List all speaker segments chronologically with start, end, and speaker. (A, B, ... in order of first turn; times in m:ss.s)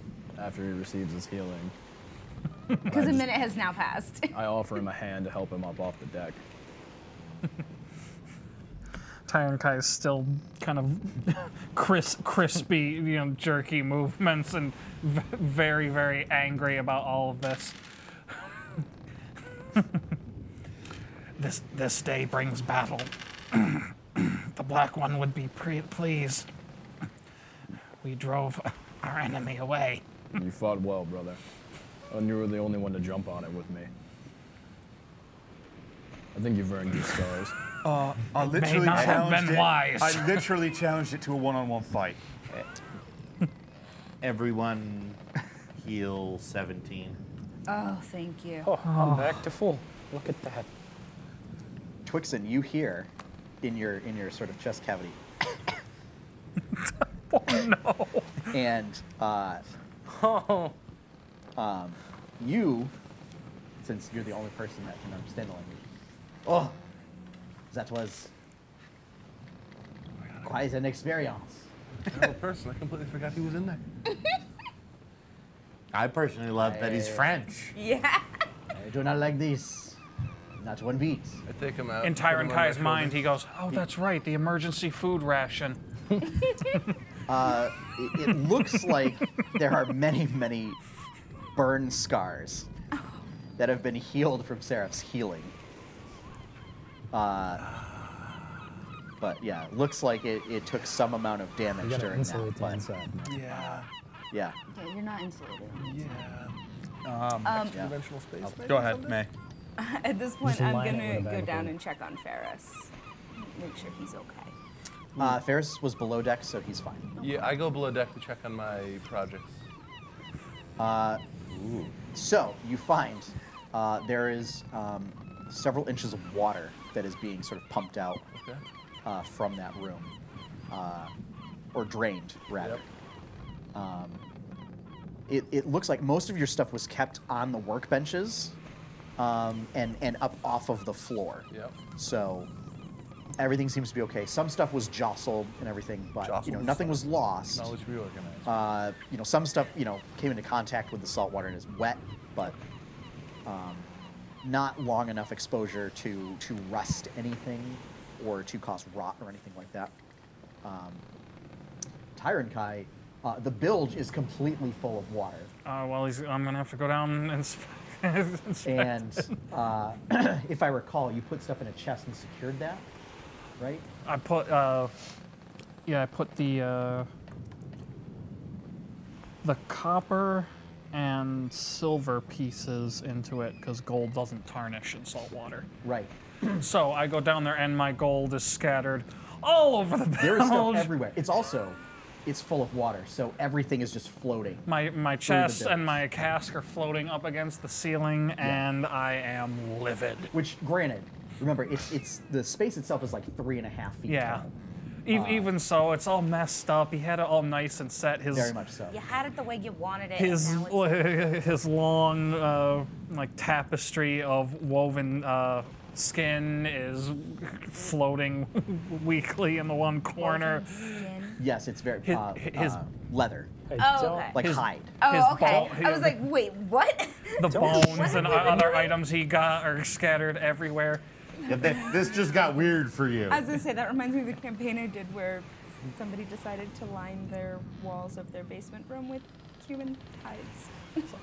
0:00.4-0:01.7 A
0:02.8-0:03.4 A
0:02.9-0:04.3 B
0:04.3-0:06.4 A
0:09.3-0:17.8 C
0:18.3-0:18.8 C
0:21.4-0:26.5 C
0:28.0-0:30.0 C
0:30.3-0:31.4 A
0:32.1-0:33.9 A
0:36.3-0:37.5 A
0:37.8-0:42.2 D
0:38.6-0:40.4 C
0:44.2-0:45.2 E
0:45.7-0:47.2 E
0:47.7-0:48.7 B
0:48.6-0:50.7 A
0:48.8-0:49.4 C
0:52.0-0:53.1 F
0:53.6-0:55.2 F
0:56.9-0:58.6 C
0:58.5-0:59.6 F
1:00.1-1:00.7 A
1:01.6-1:02.9 F
1:03.8-1:05.8 F
1:06.4-1:06.8 F
1:07.7-1:08.3 F
1:10.3-1:10.5 G
1:10.4-1:12.2 F
1:12.0-1:13.8 G
1:14.1-1:14.4 B
1:15.9-1:17.7 E
1:16.6-1:17.3 F
1:17.7-1:18.4 B
1:18.7-1:20.0 F
1:20.6-1:21.4 F
1:21.4-1:23.3 G
1:22.0-1:25.8 C
1:27.3-1:30.8 F
1:31.5-1:32.7 F
1:32.9-1:33.2 B
1:33.6-1:35.5 F
1:37.1-1:37.6 F
1:39.2-1:42.8 F
1:41.8-1:43.6 A
1:43.2-1:43.9 G
1:44.3-1:44.6 F
1:44.7-1:46.2 B
1:45.8-1:46.5 G
1:47.0-1:47.6 D
1:47.4-1:47.8 B
1:47.6-1:49.2 G
1:48.6-1:49.3 D
1:49.8-1:54.5 B
1:50.4-1:51.7 A
1:55.2-1:57.2 F
1:57.2-1:59.6 G
1:57.2-1:57.6 B
2:00.8-2:01.2 F
2:02.1-2:08.2 F
2:08.3-2:08.6 G
2:09.0-2:10.1 F
2:10.7-2:11.1 F
2:11.7-2:12.8 F
2:13.7-2:14.2 F
2:15.3-2:18.6 F
2:19.2-2:22.5 F
2:21.5-2:21.8 G
2:23.4-2:27.7 F
2:26.2-2:28.7 G
2:28.4-2:32.6 F
2:33.4-2:33.9 F
2:34.4-2:39.9 F
2:40.6-2:41.0 F
2:42.1-2:45.5 F
2:45.6-2:49.2 C
2:48.6-2:52.8 F
2:53.6-2:53.8 F
2:54.0-2:54.9 C
2:55.8-2:57.1 C
2:59.4-3:05.7 C
3:05.8-3:06.1 F
3:06.4-3:10.9 C
3:10.2-3:14.6 F
3:14.7-3:20.3 C
3:15.2-3:16.0 F
3:20.3-3:24.6 F
3:24.1-3:24.4 C
3:25.0-3:28.5 C
3:25.1-3:25.5 F
3:28.3-3:29.0 F
3:28.9-3:31.4 B
3:30.2-3:40.7 C
3:40.2-3:41.4 B
3:41.4-3:43.5 F
3:42.0-3:42.8 C
3:43.7-3:44.4 A
3:43.8-3:44.4 B
3:44.3-3:44.9 F
3:44.4-3:46.3 C
3:45.0-3:49.0 B
3:47.4-3:51.0 C
3:47.5-3:48.6 A
3:51.4-3:53.5 E
3:51.5-3:52.4 B
3:53.3-4:01.1 B